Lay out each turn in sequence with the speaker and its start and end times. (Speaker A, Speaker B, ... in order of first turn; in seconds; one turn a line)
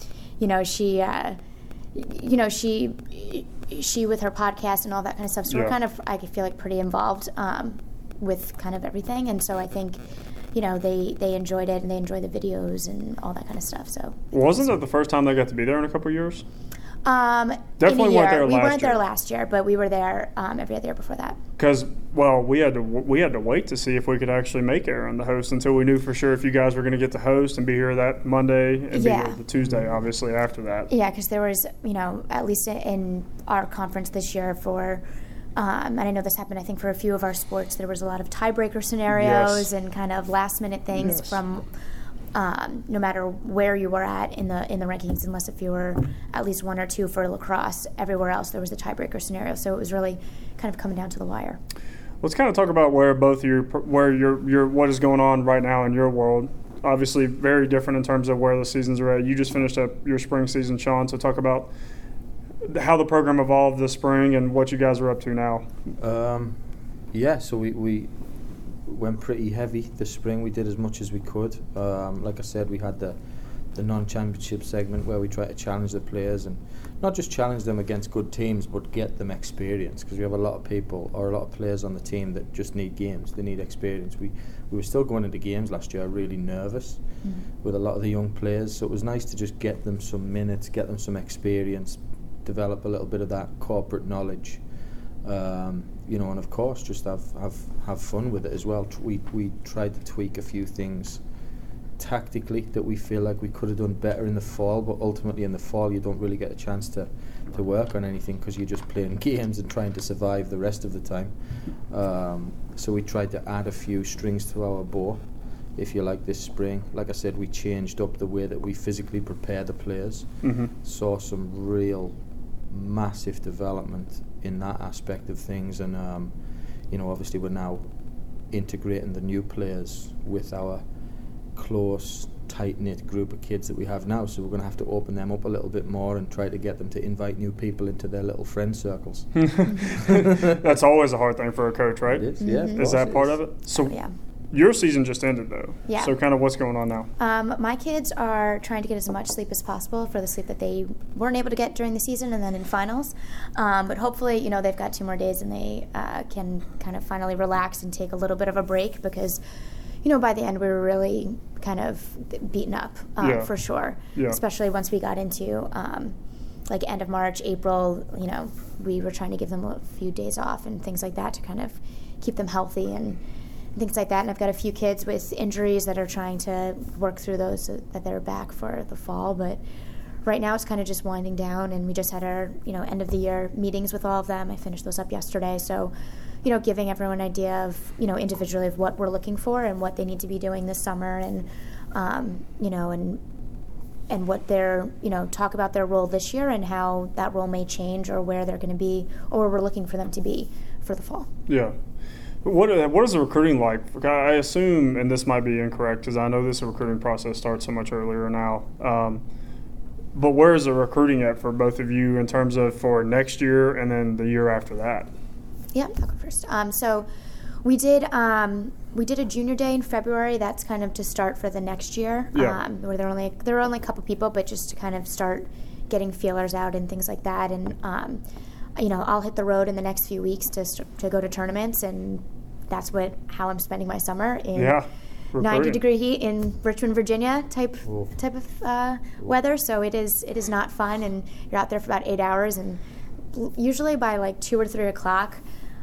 Speaker A: 0.4-1.4
Speaker A: 1.9-10.0
Speaker B: 5.5-5.8
Speaker A: 10.5-14.3
Speaker B: 14.3-16.4
Speaker A: 17.1-21.4
Speaker B: 17.8-19.0
Speaker B: 21.6-30.9
Speaker A: 28.9-29.4
Speaker A: 30.9-35.0
Speaker A: 35.6-41.7
Speaker B: 39.1-39.7
Speaker B: 41.0-41.4
Speaker A: 42.3-51.6
Speaker B: 52.2-61.7
Speaker B: 62.6-65.7
Speaker C: 66.0-73.2
Speaker C: 73.7-87.0
Speaker C: 87.6-94.6
Speaker C: 95.2-101.2
Speaker C: 102.0-115.2
Speaker C: 115.8-126.4
Speaker B: 120.4-120.7
Speaker C: 126.9-127.8
Speaker C: 128.5-130.8
Speaker C: 131.5-140.5
Speaker B: 139.4-144.0
Speaker C: 142.1-143.4
Speaker A: 142.4-142.9
Speaker A: 143.8-144.1
Speaker B: 144.5-147.1
Speaker A: 145.9-146.2
Speaker A: 147.2-159.4
Speaker A: 160.0-166.2
Speaker B: 163.2-163.5
Speaker A: 166.7-173.2
Speaker A: 173.8-179.6
Speaker A: 180.2-185.9
Speaker A: 186.4-193.2
Speaker A: 194.1-201.3
Speaker B: 201.5-201.7
Speaker B: 202.4-209.2
Speaker B: 210.2-215.1
Speaker A: 215.7-217.1
Speaker A: 217.6-228.2
Speaker B: 222.3-222.6
Speaker A: 228.8-234.8
Speaker B: 234.6-235.8
Speaker A: 235.4-242.8
Speaker C: 237.9-238.1
Speaker A: 243.3-245.4